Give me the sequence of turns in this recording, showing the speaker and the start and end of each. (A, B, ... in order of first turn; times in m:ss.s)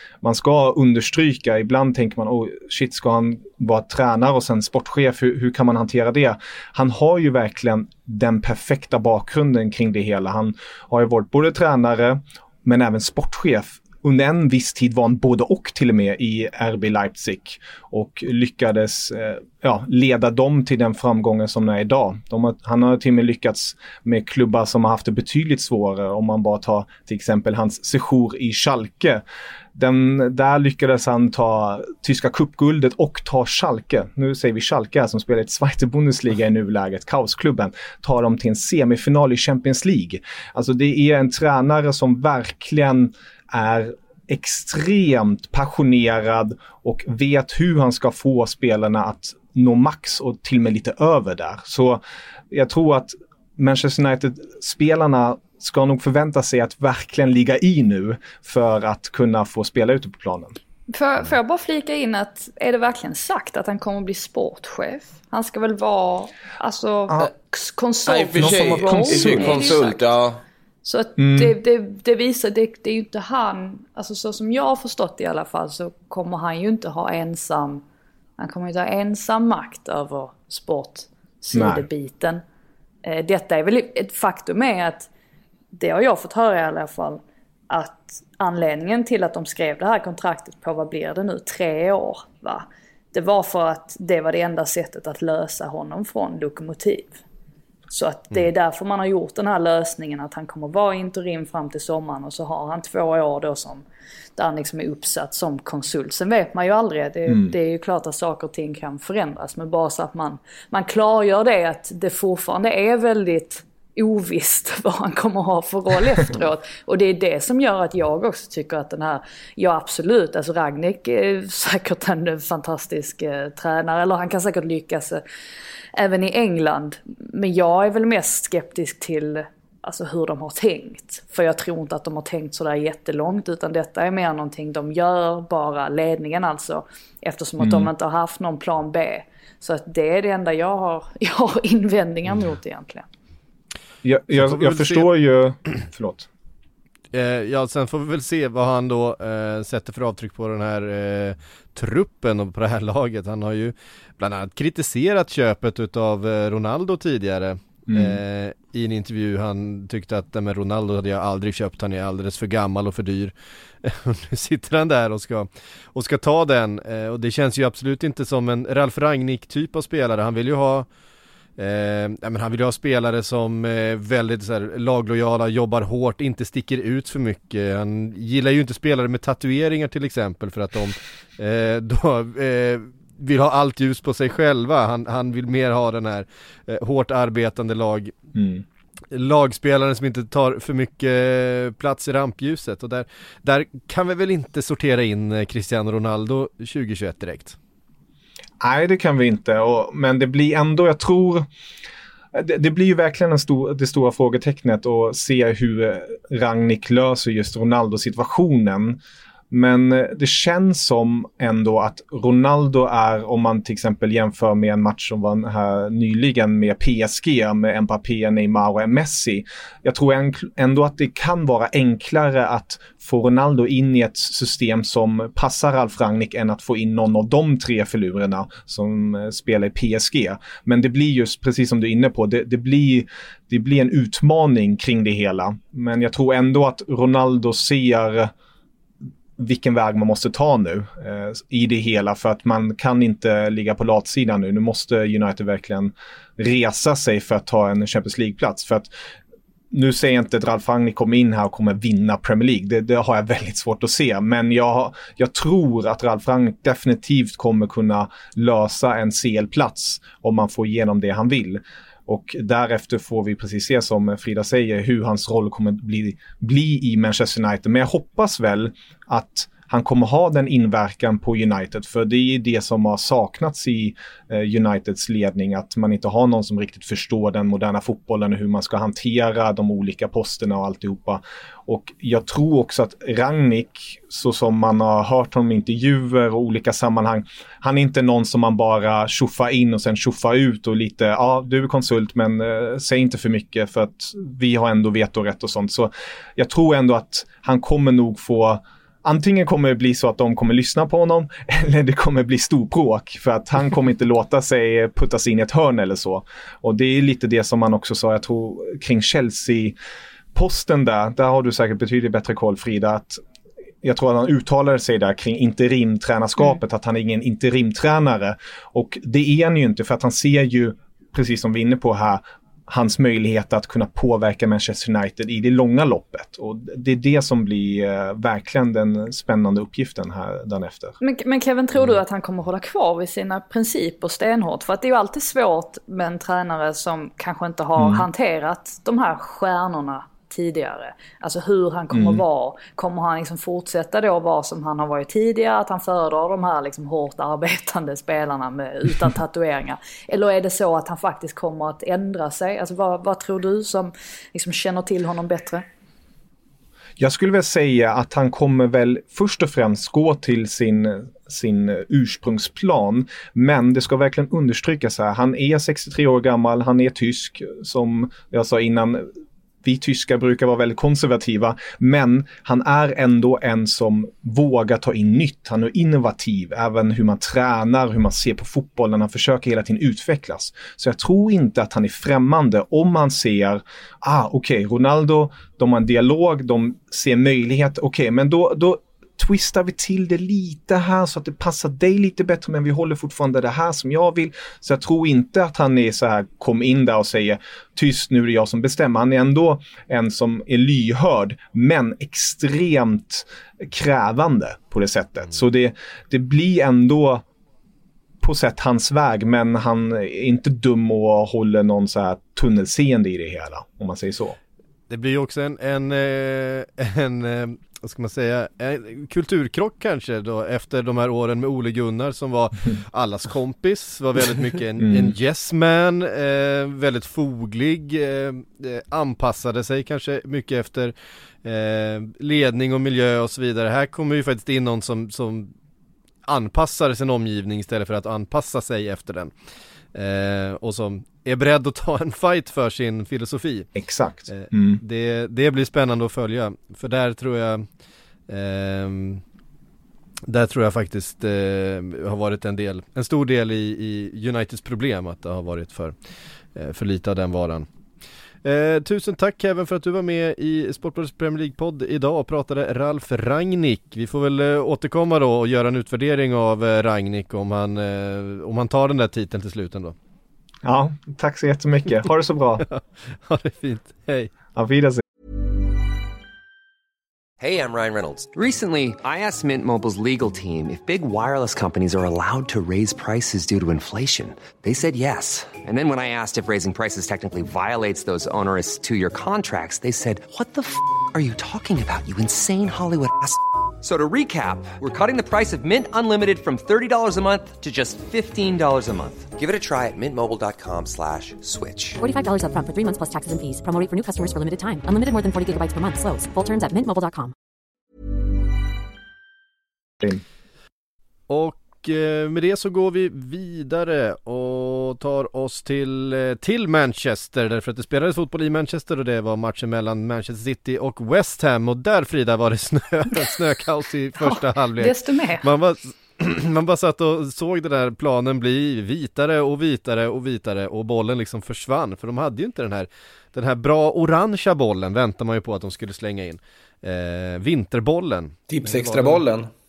0:00.2-0:29.2 A
0:29.7-1:00.6 A
1:00.9-1:10.0 B
1:08.1-1:10.4 C
1:08.4-1:09.8 A
1:10.8-1:17.8 B
1:11.2-1:11.5 A
1:18.4-1:22.4 B
1:21.5-1:21.8 A
1:23.0-1:25.1 B
1:25.7-1:37.2 B
1:37.9-1:43.8 B
1:44.4-2:05.2 B
1:47.3-1:47.5 A
2:05.9-2:23.1 B
2:17.6-2:17.9 A
2:24.0-2:26.3 A
2:24.3-2:25.1 D
2:27.1-2:50.8 D
2:37.9-2:38.2 A
2:51.6-3:08.1 D
3:08.3-3:08.6 A
3:09.1-3:17.6 D
3:18.6-3:21.5 A
3:22.3-3:58.3 A
3:59.4-4:08.9 A
4:09.7-5:09.8 A
5:10.3-5:13.2 A
5:13.8-5:31.0 A
5:31.0-5:55.6 B
5:37.8-5:38.0 A
5:41.9-5:42.2 A
5:57.0-6:09.1 A
6:09.6-6:47.2 A
6:48.2-6:54.4 A
6:54.9-7:15.5 D
7:04.8-7:05.1 A
7:16.2-7:19.3 D
7:19.9-7:23.7 D
7:23.8-7:24.8 A
7:24.3-7:27.6 D
7:28.3-7:29.2 D
7:30.3-7:35.9 D
7:36.5-7:37.7 D
7:38.4-7:49.9 D
7:50.6-7:52.6 A
7:52.6-7:54.3 D
7:54.5-7:55.0 A
7:57.4-8:22.0 E
8:22.0-8:27.3 F
8:31.3-8:59.2 D
8:44.2-8:45.4 B
8:58.5-8:59.5 C